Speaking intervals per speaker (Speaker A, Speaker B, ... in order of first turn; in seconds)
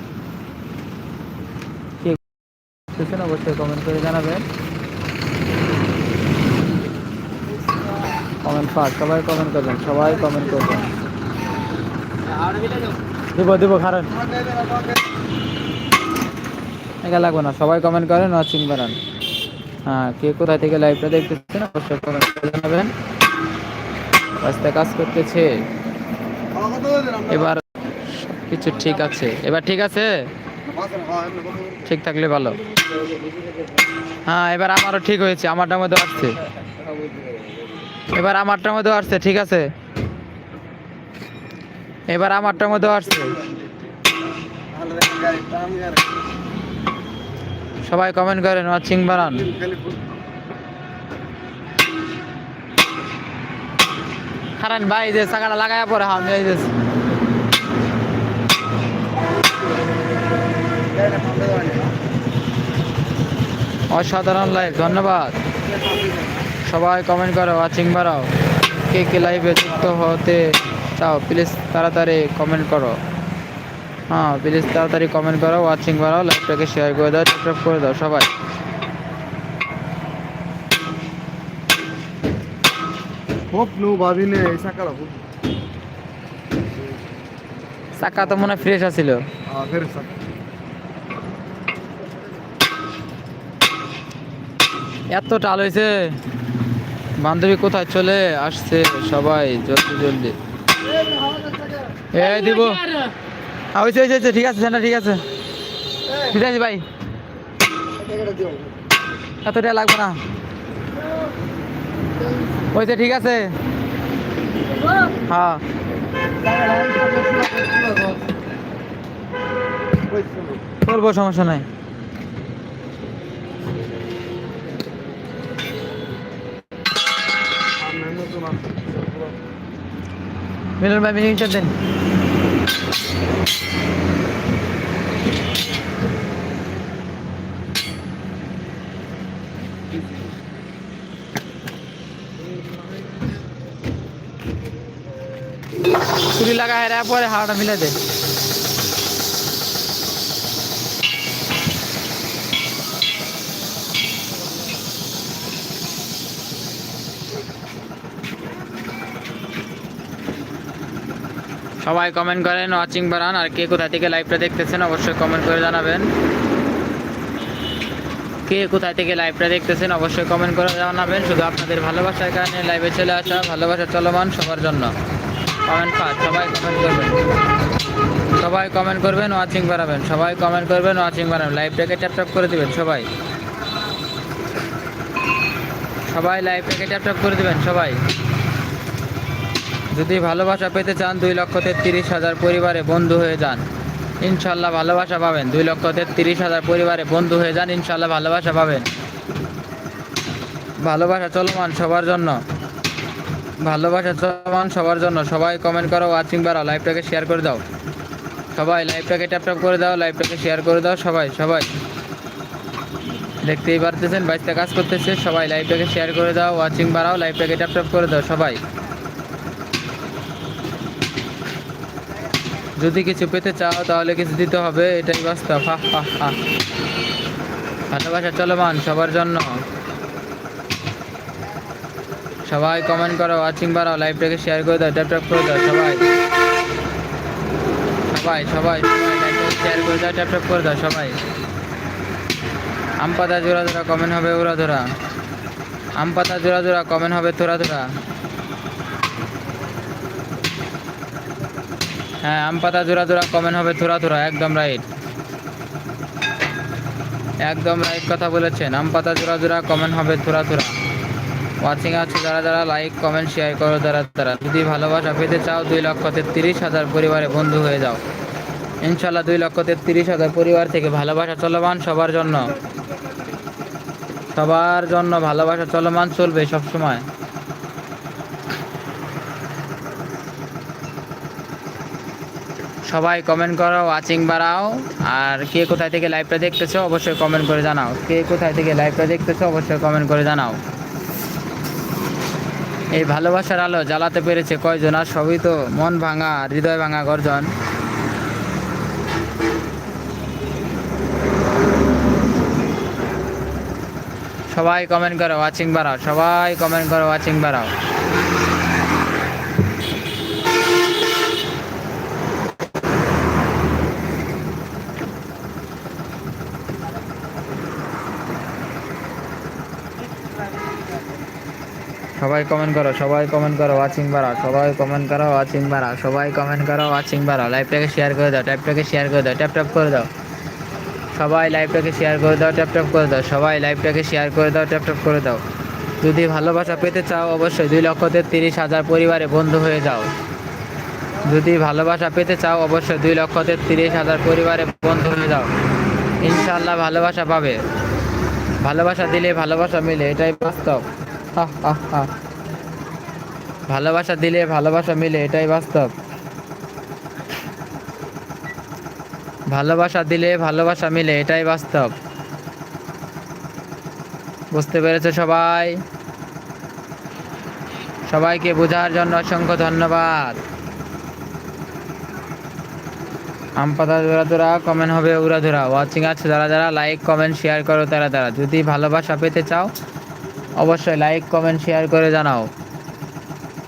Speaker A: 2.9-4.5, 8.4-10.9, 13.3-14.2, 17.0-19.0, 19.9-22.9, 24.4-25.5, 27.3-27.6, 28.4-30.3, 31.8-32.6, 34.3-36.4, 38.1-39.7, 42.1-43.4, 47.8-49.5, 54.6-56.7, 63.9-65.4, 66.6-68.3, 68.9-73.0, 74.1-78.3, 88.0-89.2, 95.1-96.2, 97.2-100.4, 102.1-103.0, 103.7-105.2, 106.1-106.8, 109.4-110.2, 112.7-113.5, 115.3-115.6, 120.8-121.7, 130.8-131.7, 146.3-148.0, 161.8-166.1, 168.5-174.9, 175.6-177.2, 178.4-183.1, 186.1-188.0, 189.9-193.6, 194.2-198.9, 200.8-202.4, 203.6-207.6, 208.5-211.7, 213.4-218.6, 222.8-226.4, 227.9-229.6, 232.4-236.1, 238.1-241.2, 243.0-244.9, 245.9-247.9, 252.2-254.9, 257.4-260.7, 261.6-268.0, 268.8-272.5, 274.3-277.1, 282.9-290.6, 292.9-297.5, 304.5-307.7, 322.2-330.1, 331.1-335.4, 336.0-340.1, 341.2-345.5, 346.2-347.6, 348.6-352.1, 353.7-355.9, 359.5-361.9, 364.5-365.8, 368.1-370.4, 373.6-379.7, 380.6-382.5
Speaker B: 26.6-27.3, 30.7-31.8, 44.9-45.9, 83.5-85.2, 89.5-90.2, 116.7-117.6, 120.1-120.6, 127.8-129.3